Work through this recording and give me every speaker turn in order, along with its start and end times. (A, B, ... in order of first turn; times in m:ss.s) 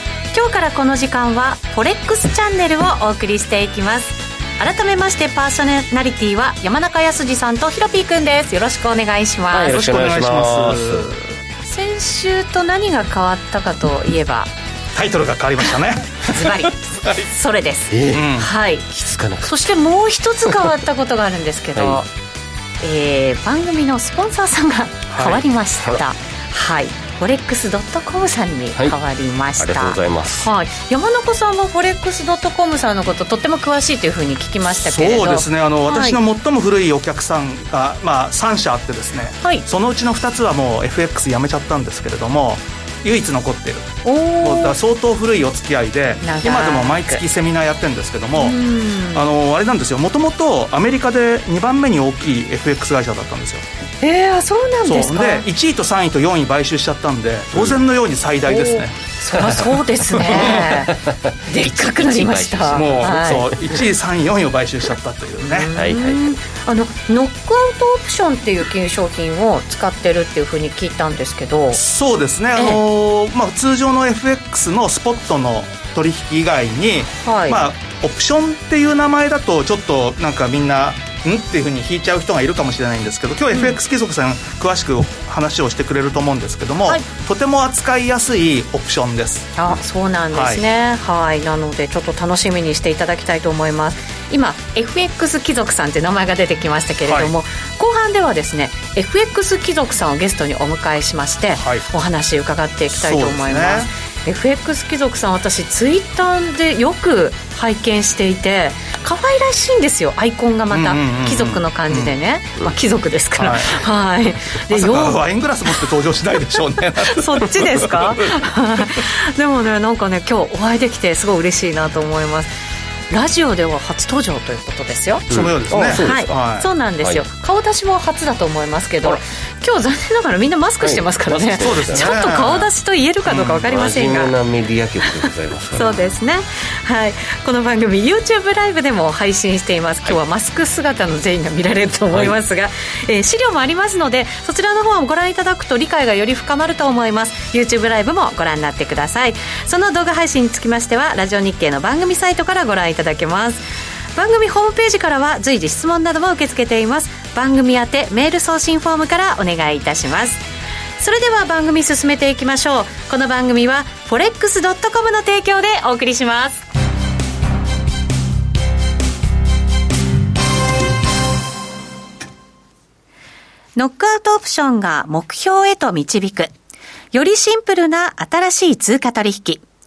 0:00.3-0:09.8 A
0:09.5-0:11.1 B
0:09.5-0:11.2 C
0:11.6-0:14.5 A
0:15.0-0:17.2 C
0:16.3-0:18.9 A
0:17.9-0:19.5 B
0:18.1-0:18.5 C
0:19.4-0:22.1 A
0:21.8-0:22.0 B
0:22.8-0:36.2 A
0:25.1-0:25.4 C
0:29.6-0:30.5 B
0:34.8-0:53.6 C
0:44.0-0:44.8 A
0:46.2-0:47.2 A
0:48.4-0:49.2 A
0:54.0-0:55.5 A
0:54.8-0:59.6 C
0:57.5-0:57.8 B
0:58.5-1:03.5 A
1:00.1-1:00.8 C
1:00.2-1:03.8 B
1:02.7-1:05.7 C
1:05.4-1:11.8 A
1:05.8-1:06.4 B
1:11.7-1:29.5 C
1:17.2-1:17.6 A
1:29.6-1:55.2 A
1:30.3-1:30.6 C
1:37.0-1:37.3 C
1:41.6-1:41.9 C
1:42.9-1:43.9 C
1:50.7-1:52.2 C
1:53.4-1:53.8 C
1:54.7-1:58.1 C
1:57.0-2:02.5 A
2:03.1-2:05.3 A
2:05.3-2:06.7 C
2:05.3-2:06.3 B
2:05.9-2:14.3 A
2:07.0-2:07.3 B
2:10.8-2:12.3 B
2:11.6-2:12.7 C
2:13.3-2:13.7 C
2:13.6-2:16.2 B
2:15.2-2:33.6 A
2:22.1-2:22.4 B
2:34.2-2:40.4 A
2:41.0-2:46.6 A
2:53.8-2:56.5 A
2:57.1-2:59.6 A